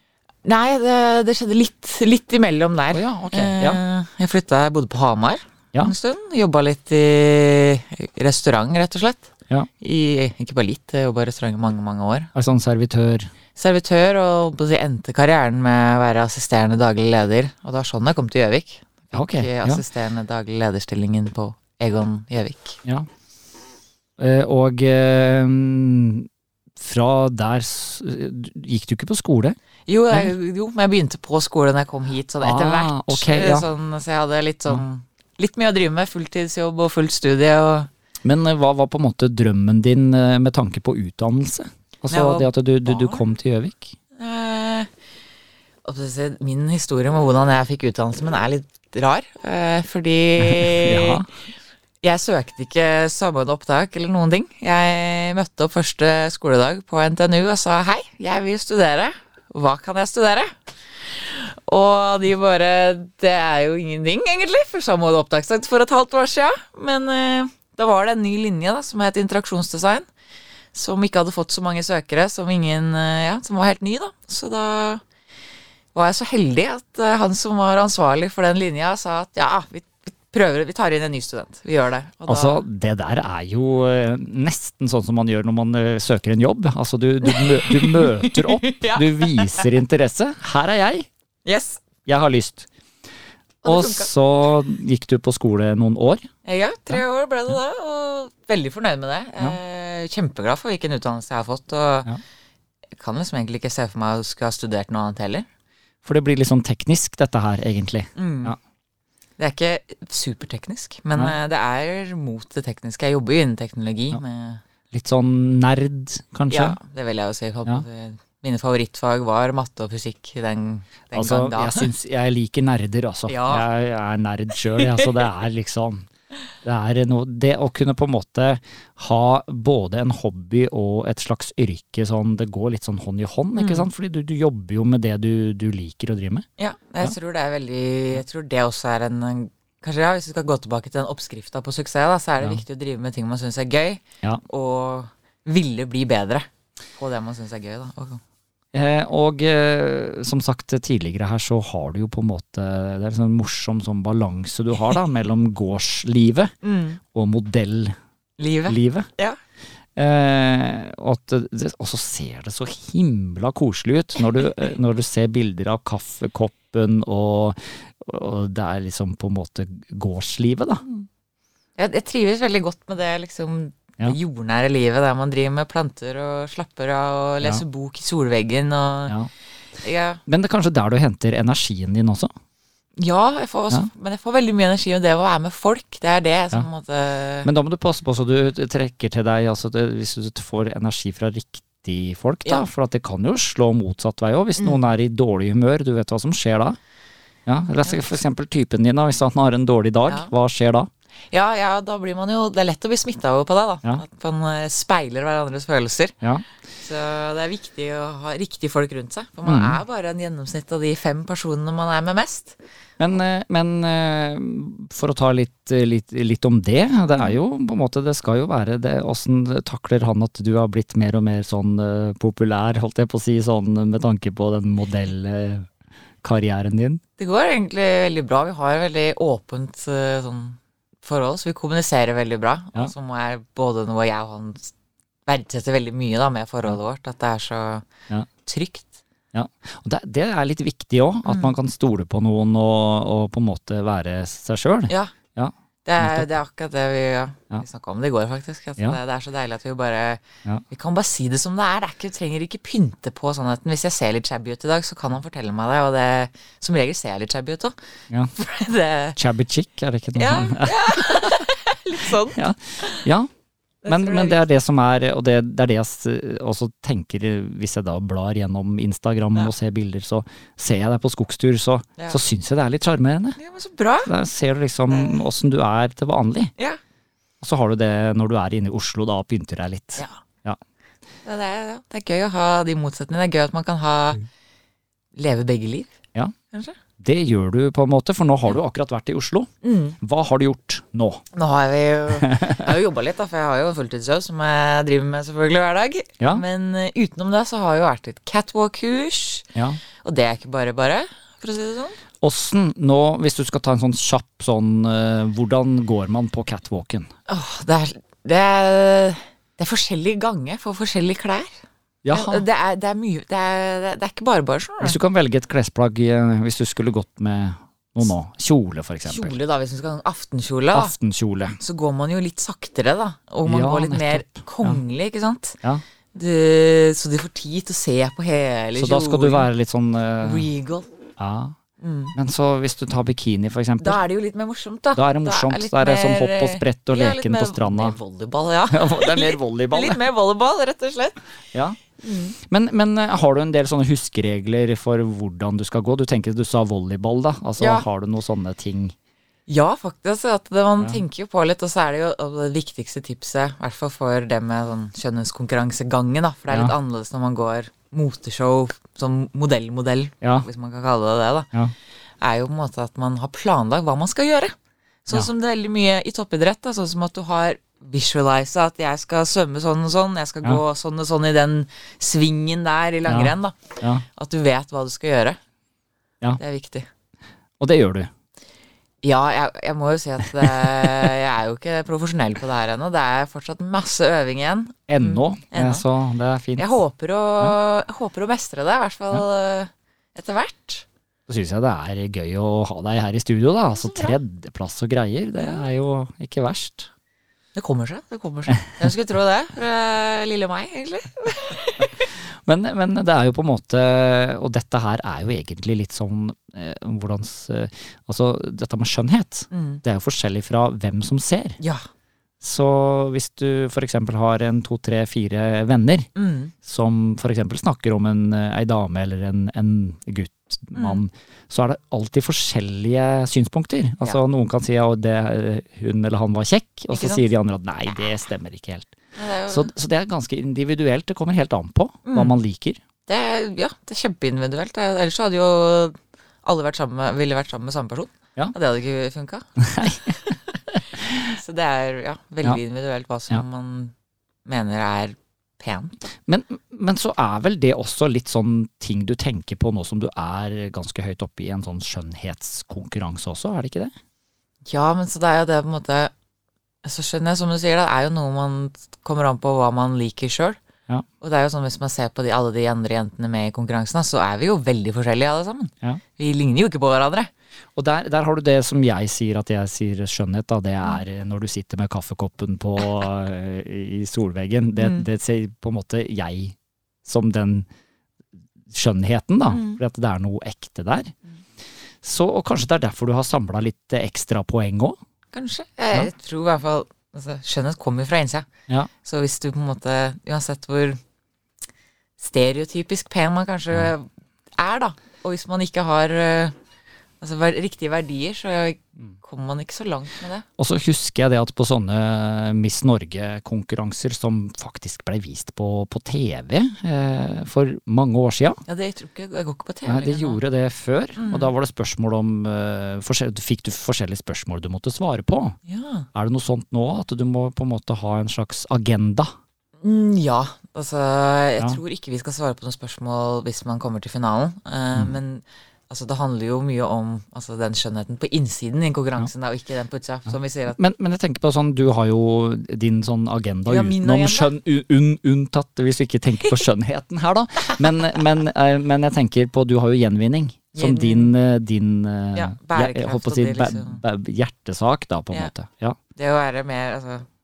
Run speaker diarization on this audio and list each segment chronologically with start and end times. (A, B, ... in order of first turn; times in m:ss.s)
0:00.4-0:09.3 A
0:02.9-0:03.8 B
0:09.8-0:12.3 A
0:12.3-0:13.3 B
0:13.6-0:22.8 A
0:19.1-0:19.8 B
0:24.2-0:26.3 B
0:26.8-0:29.6 B
0:29.9-0:37.9 A
0:32.4-0:33.7 B
0:38.2-0:44.0 B
0:42.1-0:43.2 A
0:44.2-0:44.9 A
0:45.8-0:51.2 A
0:50.4-0:51.3 B
0:52.0-1:00.5 A
1:01.0-1:10.1 A
1:10.7-1:15.0 A
1:16.0-1:22.6 A
1:22.3-1:31.1 B
1:27.2-1:29.7 A
1:31.4-1:31.8 A
1:32.0-1:32.7 B
1:33.6-1:34.1 A
1:33.6-1:36.3 B
1:36.4-1:42.1 A
1:43.0-1:45.5 A
1:46.0-1:48.6 B
1:48.2-1:48.6 A
1:49.4-1:54.6 A
1:54.9-1:56.8 B
1:56.5-2:01.9 A
2:01.1-2:06.1 B
2:03.3-2:03.7 A
2:04.7-2:05.0 A
2:06.6-2:16.5 B
2:13.5-2:13.9 A
2:16.6-2:26.5 A
2:27.0-2:28.2 A
2:28.7-2:36.5 B
2:36.6-2:37.0 A
2:37.1-2:38.0 B
2:38.4-2:39.4 A
2:38.7-2:39.1 B
2:40.0-2:50.8 B
2:51.8-2:59.2 A
2:59.8-3:00.2 A
3:00.3-3:02.3 B
3:03.0-3:07.5 A
3:07.4-3:16.8 B
3:14.6-3:14.8 A
3:17.5-3:20.9 B
3:20.0-3:20.3 A
3:21.3-3:26.2 A
3:26.8-3:32.6 A
3:29.4-3:29.8 B
3:33.0-3:45.7 B
3:46.2-3:47.0 B
3:47.2-3:54.7 A
3:55.3-3:57.9 A
3:58.4-3:59.0 A
3:59.3-4:06.3 B
4:01.2-4:01.5 A
4:05.8-4:17.8 A
4:18.3-4:19.2 A
4:19.2-4:21.4 B
4:20.2-4:23.1 A
4:22.2-4:23.3 B
4:23.8-4:24.4 A
4:23.9-4:33.4 B
4:33.4-4:34.1 A
4:34.0-4:36.5 B
4:34.9-4:35.2 A
4:37.4-4:40.6 B
4:41.2-4:44.2 A
4:45.2-4:45.9 A
4:46.5-4:46.8 A
4:47.0-4:49.5 B
4:49.6-4:50.0 A
4:50.0-4:51.2 B
4:51.3-4:59.5 A
4:52.2-4:52.6 B
4:59.5-4:59.8 B
5:00.0-5:02.0 A
5:02.2-5:07.1 B
5:07.3-5:11.5 A
5:12.0-5:12.4 B
5:12.1-5:15.0 A
5:14.8-5:19.4 B
5:19.0-5:20.9 A
5:20.7-5:21.6 B
5:21.6-5:25.6 A
5:23.4-5:24.8 B
5:26.1-5:29.5 A
5:28.8-5:30.5 B
5:30.2-5:30.9 A
5:31.2-5:31.6 B
5:31.8-5:32.1 A
5:32.1-5:34.0 B
5:33.8-5:41.2 A
5:35.0-5:38.0 B
5:38.7-5:40.0 B
5:41.5-5:41.8 B
5:42.0-5:42.4 A
5:42.4-5:48.9 B
5:47.6-5:47.9 A
5:49.5-6:01.5 A
5:56.5-5:56.8 B
6:02.2-6:04.6 A
6:05.1-6:15.4 A
6:13.1-6:14.0 B
6:16.4-6:16.9 A
6:17.6-6:18.1 B
6:19.0-6:25.8 A
6:24.9-6:26.7 B
6:26.6-6:30.8 A
6:31.3-6:36.9 B
6:33.7-6:34.2 A
6:35.4-6:35.7 A
6:37.6-6:42.0 A
6:42.1-6:51.6 B
6:49.5-6:49.8 A
6:51.6-6:51.8 A
6:52.4-6:56.1 B
6:56.1-6:56.5 A
6:56.6-7:08.9 B
7:00.7-7:01.0 A
7:06.9-7:07.2 A
7:09.2-7:09.7 A
7:09.5-7:12.8 B
7:12.1-7:12.4 A
7:13.1-7:20.6 A
7:19.6-7:20.2 B
7:20.8-7:21.2 B
7:21.1-7:23.9 A
7:24.5-7:26.0 A
7:26.3-7:33.9 B
7:34.7-7:36.1 A
7:36.8-7:40.6 A
7:41.2-7:47.3 A
7:47.8-7:57.7 B
7:54.8-7:55.1 A
7:58.7-8:01.1 B
7:59.5-7:59.8 A
8:02.0-8:05.0 B
8:05.3-8:08.5 A
8:09.0-8:11.0 A
8:12.2-8:16.6 A
8:17.2-8:20.4 A
8:20.6-8:28.6 B
8:28.7-8:30.4 A
8:29.9-8:35.6 B
8:31.2-8:31.5 A
8:35.7-8:36.1 A
8:36.1-8:39.3 B
8:39.8-8:50.8 A
8:50.7-9:06.0 B
8:53.7-8:54.5 A
9:00.7-9:01.3 A
9:02.4-9:04.0 A
9:06.2-9:07.2 A